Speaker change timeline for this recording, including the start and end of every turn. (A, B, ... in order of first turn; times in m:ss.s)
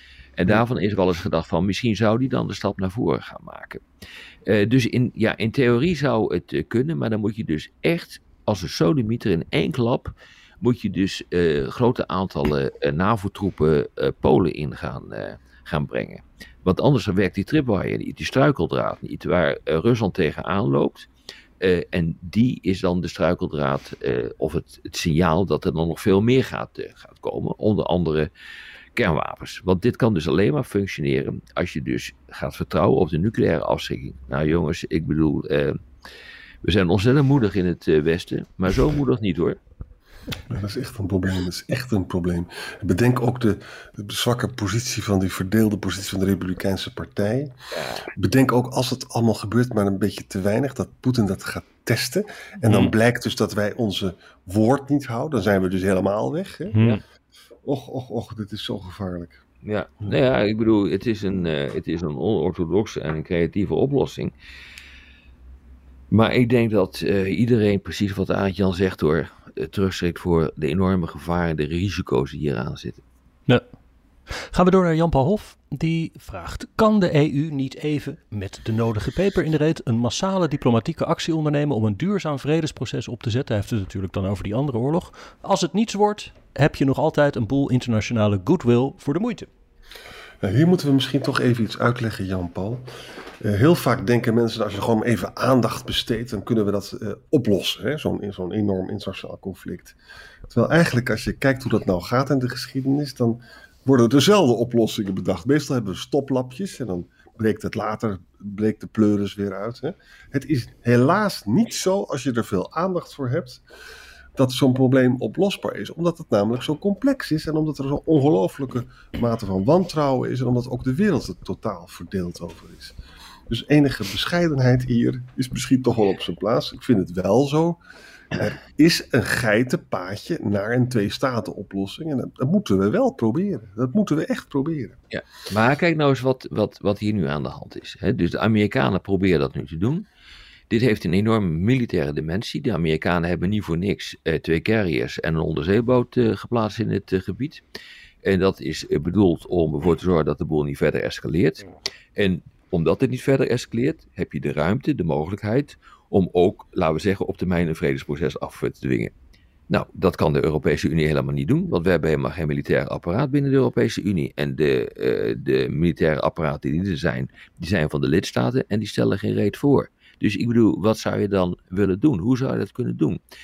0:00.4-0:03.8 A
0:04.4-0:21.1 A
0:21.6-0:28.3 A
0:28.9-0:35.8 A
0:36.6-0:39.6 A
0:40.5-0:47.5 B
0:47.7-0:48.1 A
0:48.1-0:56.8 B
0:56.7-0:57.0 C
0:57.6-0:59.4 B
0:59.6-1:04.3 A
1:06.1-1:13.0 A
1:14.4-1:29.5 C
1:30.4-1:32.8 B
1:33.4-1:40.0 B
1:40.5-1:53.6 B
1:54.3-2:03.0 B
2:03.5-2:07.8 B
2:08.3-2:15.0 B
2:15.1-2:20.0 A
2:20.7-2:27.6 A
2:28.2-2:39.1 A
2:39.7-2:53.2 A